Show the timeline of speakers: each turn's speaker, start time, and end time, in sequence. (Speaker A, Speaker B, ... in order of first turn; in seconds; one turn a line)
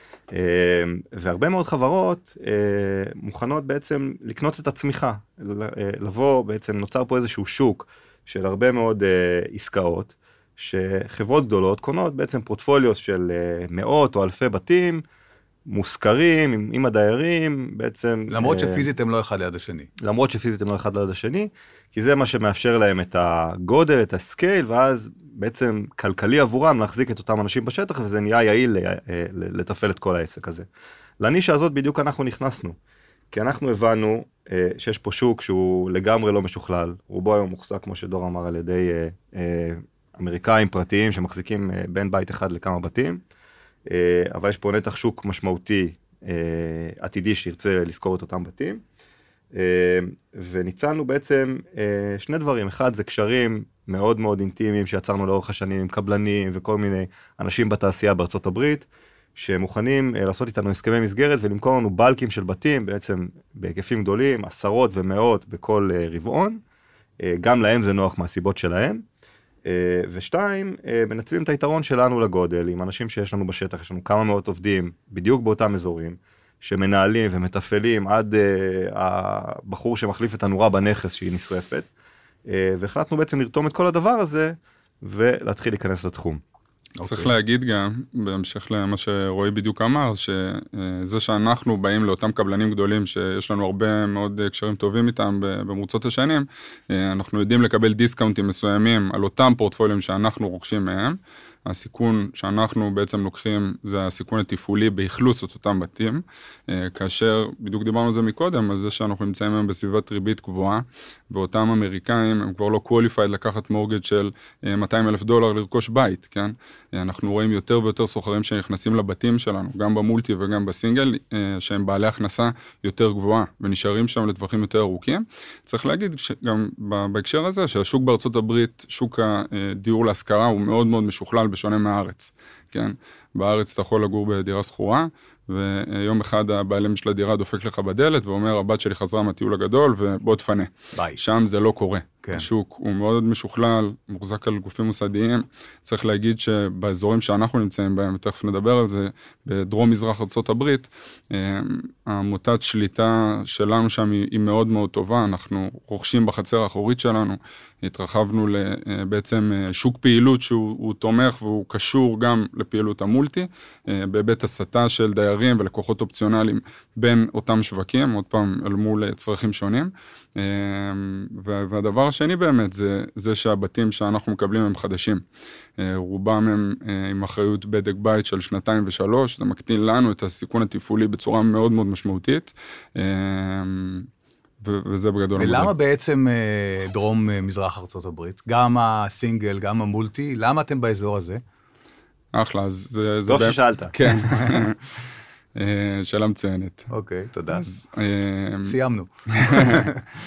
Speaker A: 0.3-15.0
Speaker A: 15.7-18.8
Speaker B: 18.3-19.9
Speaker A: 20.0-30.7
Speaker A: 31.2-32.8
Speaker A: 33.3-43.2
Speaker A: 43.9-48.8
Speaker A: 49.5-66.6
Speaker A: 67.2-69.0
Speaker A: 69.7-81.9
Speaker A: 82.5-86.4
Speaker B: 87.0-87.3
Speaker C: 87.0-175.2
Speaker C: 175.8-184.1
Speaker C: 184.6-185.7
Speaker B: 185.4-191.4
Speaker C: 192.3-195.0
Speaker A: 193.3-193.9
Speaker C: 195.6-196.9
Speaker B: 196.9-197.8
Speaker C: 197.5-198.8
Speaker B: 198.7-200.0
Speaker C: 199.3-199.9